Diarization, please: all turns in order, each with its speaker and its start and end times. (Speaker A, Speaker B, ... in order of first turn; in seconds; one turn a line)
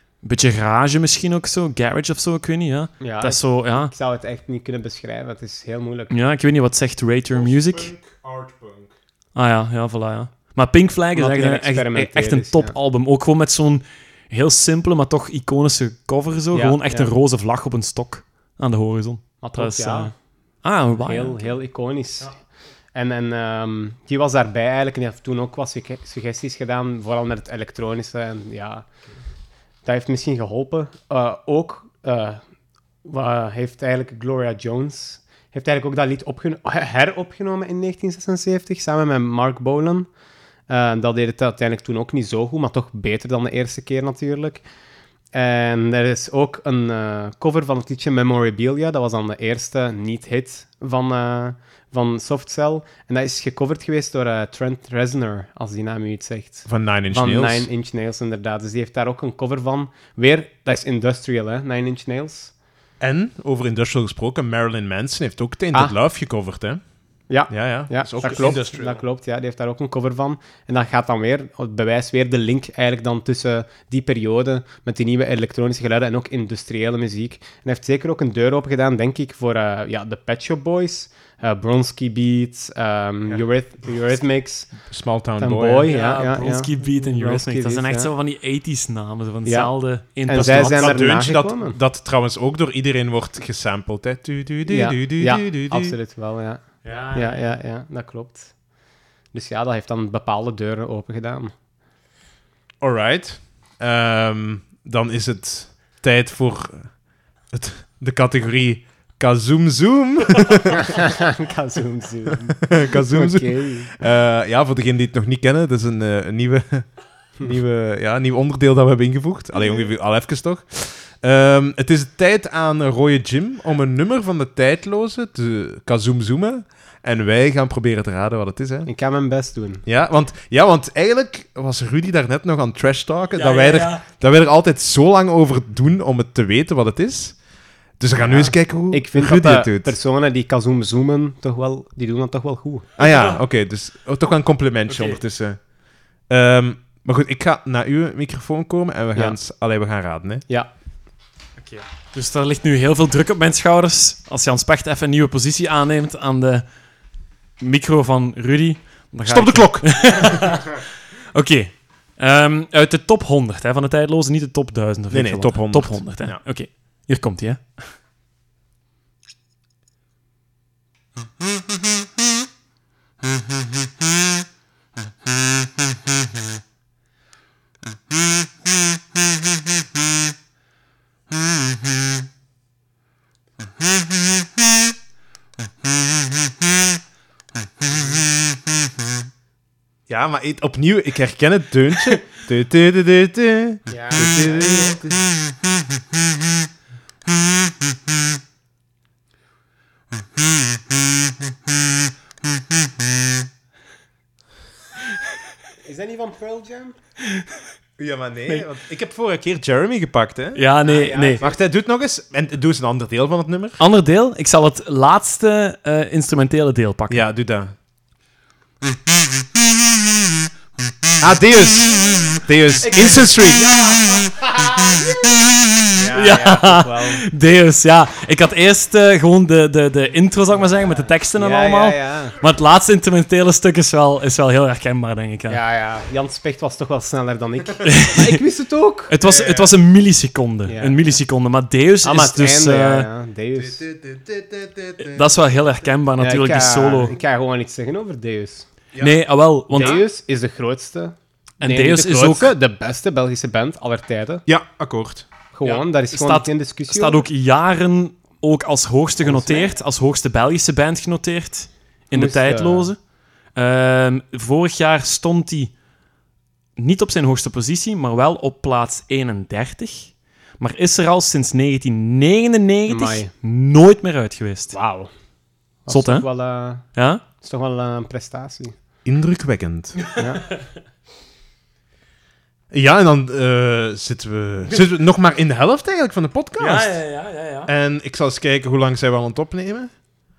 Speaker A: 0.2-3.9
Speaker B: 3.0-6.1
Speaker A: 6.1-7.9
Speaker C: 7.3-8.9
Speaker A: 9.3-21.5
Speaker B: 11.1-12.7
Speaker B: 16.5-17.1
Speaker B: 19.4-20.1
Speaker B: 20.9-22.4
Speaker B: 22.9-28.9
Speaker B: 29.8-32.4
Speaker B: 33.0-40.1
Speaker B: 40.7-44.6
Speaker B: 45.3-62.5
Speaker C: 56.6-57.7
Speaker C: 63.0-66.8
Speaker B: 67.3-84.7
Speaker C: 67.5-69.0
Speaker C: 84.8-85.9
Speaker B: 85.4-88.1
Speaker A: 85.9-91.1
Speaker B: 89.4-89.7
Speaker B: 90.2-91.8
Speaker C: 90.3-95.9
Speaker B: 94.7-98.5
Speaker A: 96.8-97.5
Speaker B: 99.3-101.5
Speaker C: 102.8-107.0
Speaker C: 107.5-110.8
Speaker B: 110.7-113.9
Speaker C: 112.6-128.9
Speaker B: 128.8-129.8
Speaker C: 129.8-137.4
Speaker A: 133.3-134.0
Speaker C: 138.0-139.9
Speaker B: 138.2-142.9
Speaker C: 143.0-145.7
Speaker A: 143.0-143.4
Speaker A: 144.9-145.2
Speaker C: 146.3-150.4
Speaker A: 151.6-156.6
Speaker A: 157.6-160.8
Speaker C: 159.2-160.2
Speaker A: 161.3-167.8
Speaker C: 165.1-166.4
Speaker C: 190.1-195.2
Speaker B: 193.9-195.0
Speaker B: 205.8-206.9
Speaker C: 208.0-210.7
Speaker A: 210.6-211.4
Speaker B: 210.8-211.6
Speaker C: 211.4-213.8
Speaker A: 213.8-217.2
Speaker C: 217.1-217.7
Speaker C: 221.2-223.7
Speaker A: 223.8-225.2
Speaker B: 225.9-227.2
Speaker A: 226.1-235.6
Speaker B: 231.3-232.3
Speaker B: 235.5-239.7
Speaker A: 237.8-238.4
Speaker A: 239.1-243.1
Speaker B: 240.7-241.1
Speaker B: 242.0-243.8
Speaker C: 243.5-245.3
Speaker A: 245.0-247.1
Speaker B: 246.2-248.7
Speaker C: 248.9-249.2
Speaker A: 249.0-250.0
Speaker B: 249.7-254.4
Speaker A: 251.6-252.5
Speaker C: 254.5-255.3
Speaker B: 255.5-257.2
Speaker A: 255.6-263.0
Speaker B: 259.2-259.7
Speaker B: 262.1-262.9
Speaker A: 263.5-265.7
Speaker A: 266.8-274.8
Speaker B: 272.9-273.3
Speaker B: 274.7-275.1
Speaker B: 275.8-276.9
Speaker A: 275.9-276.3
Speaker A: 276.9-277.2
Speaker B: 277.4-278.7
Speaker C: 279.0-280.0
Speaker A: 280.0-280.4
Speaker B: 280.1-280.5
Speaker C: 282.7-287.0
Speaker A: 286.6-287.7
Speaker C: 287.6-289.9